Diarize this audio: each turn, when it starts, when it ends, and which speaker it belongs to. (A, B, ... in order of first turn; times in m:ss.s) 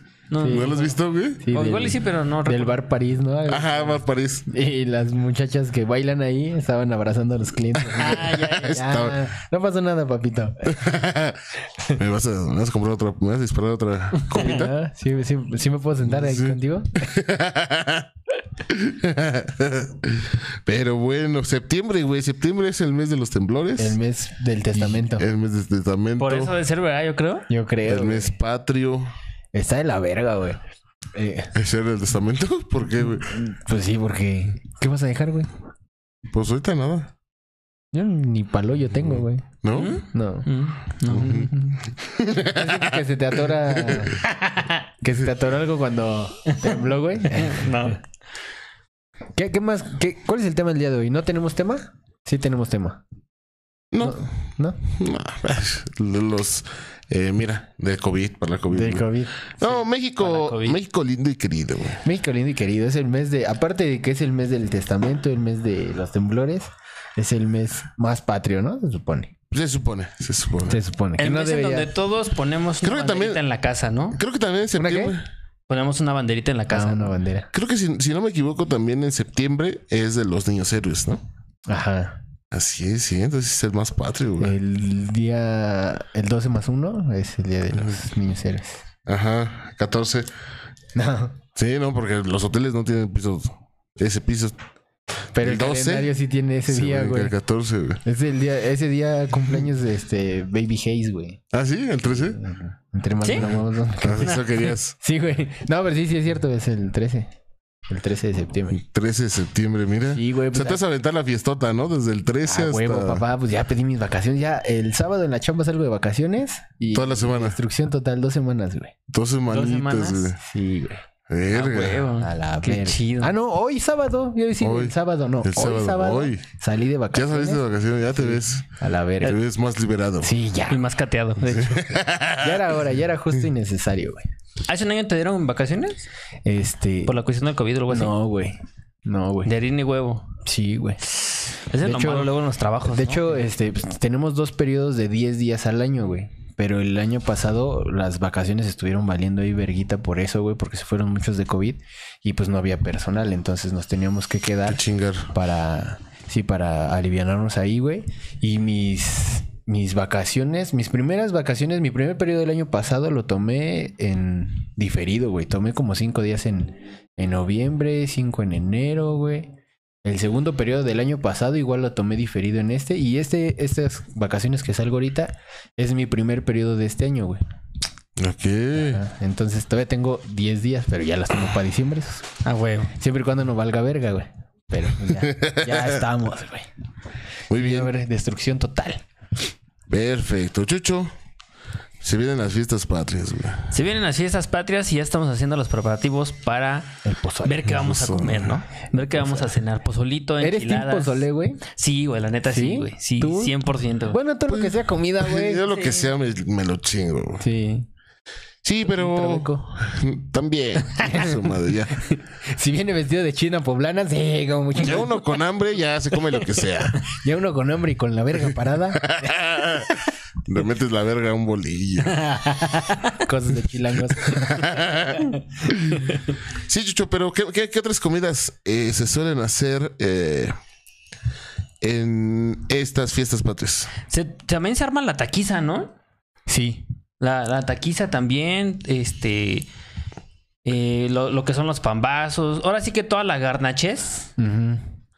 0:00.3-0:00.9 A
0:00.4-0:10.8 B
0:00.5-0:01.4 C
0:01.5-0:02.8 A
0:03.5-0:04.5 C
0:07.9-0:09.2 C
0:07.9-0:08.8 A
0:10.7-0:11.4 C
0:12.0-0:14.8 C
0:14.3-0:17.1 B
0:16.0-0:18.1 C
0:18.6-0:24.0 C
0:23.8-0:25.3 B
0:24.8-0:26.5 C
0:26.2-0:27.5 A
0:27.5-0:28.3 B
0:27.8-0:29.1 C
0:29.5-0:30.6 B
0:31.1-0:31.5 B
0:31.6-0:33.3 C
0:33.1-0:35.5 B
0:36.3-0:37.1 C
0:37.9-0:39.5 B
0:39.0-0:40.0 C
0:39.7-0:41.8 A
0:40.1-0:40.5 B
0:41.1-0:43.0 C
0:42.4-0:44.2 B
0:43.7-0:44.1 C
0:44.2-0:44.8 A
0:45.0-0:47.7 B
0:47.3-0:48.0 A
0:49.4-0:53.0 B
0:53.9-0:54.2 C
0:54.0-0:54.8 B
0:54.9-1:02.0 C
0:58.7-0:59.4 B
0:59.6-1:00.8 A
1:02.0-1:09.3 B
1:09.5-1:10.8 C
1:10.7-1:11.9 B
1:11.2-1:14.2 A
1:12.8-1:13.4 C
1:14.2-1:15.3 C
1:14.8-1:15.2 B
1:15.7-1:17.2 A
1:16.7-1:17.5 B
1:17.5-1:21.2 C
1:21.7-1:22.2 B
1:22.5-1:24.6 C
1:24.4-1:28.8 B
1:27.7-1:28.0 C
1:29.1-1:30.3 C
1:31.0-1:31.4 B
1:31.6-1:34.6 C
1:35.3-1:37.4 B
1:35.4-1:36.1 C
1:36.7-1:38.0 C
1:38.1-1:41.4 B
1:41.5-1:42.4 C
1:42.1-1:44.4 B
1:43.4-1:45.0 C
1:45.0-1:47.3 B
1:47.9-1:48.8 B
1:48.7-1:53.2 C
1:50.1-1:50.8 B
1:52.5-1:58.9 B
1:56.9-1:57.6 C
1:59.1-2:00.4 C
1:59.5-2:00.3 A
2:00.4-2:01.0 B
2:01.3-2:02.1 C
2:01.5-2:03.3 A
2:02.2-2:09.4 B
2:04.6-2:06.4 C
2:07.1-2:10.3 C
2:10.2-2:14.2 B
2:10.7-2:11.5 A
2:11.5-2:12.6 C
2:14.7-2:16.0 A
2:16.4-2:17.2 B
2:17.0-2:18.1 A
2:17.9-2:19.5 B
2:19.4-2:20.2 A
2:20.4-2:21.0 B
2:21.7-2:23.4 A
2:21.8-2:49.5 B
2:34.7-2:35.3 C
2:50.0-2:57.4 B
2:58.2-2:59.0 C
2:58.8-3:02.3 B
3:02.4-3:02.9 A
3:03.0-3:06.7 B
3:05.2-3:06.0 C
3:07.5-3:07.9 C
3:07.5-3:09.0 B
3:09.9-3:11.1 C
3:12.0-3:13.8 C
3:13.7-3:16.9 A
3:17.0-3:17.7 B
3:17.4-3:24.2 A
3:17.7-3:18.6 C
3:19.2-3:19.5 B
3:20.4-3:21.6 B
3:22.5-3:23.6 B
3:24.1-3:25.6 B
3:24.5-3:27.4 C
3:25.7-3:26.1 A
3:27.4-3:27.9 B
3:28.6-3:32.0 C
3:28.9-3:29.7 B
3:31.0-3:35.2 B
3:34.8-3:37.0 C
3:37.1-3:39.9 B
3:39.0-3:42.3 C
3:42.1-3:43.2 A
3:43.2-3:44.8 B
3:44.2-3:46.0 C
3:46.6-3:50.5 C
3:51.8-3:53.9 C
3:54.1-3:55.9 A
3:56.5-3:56.8 B
3:57.2-3:59.7 A
4:00.6-4:04.3 A
4:04.4-4:04.8 B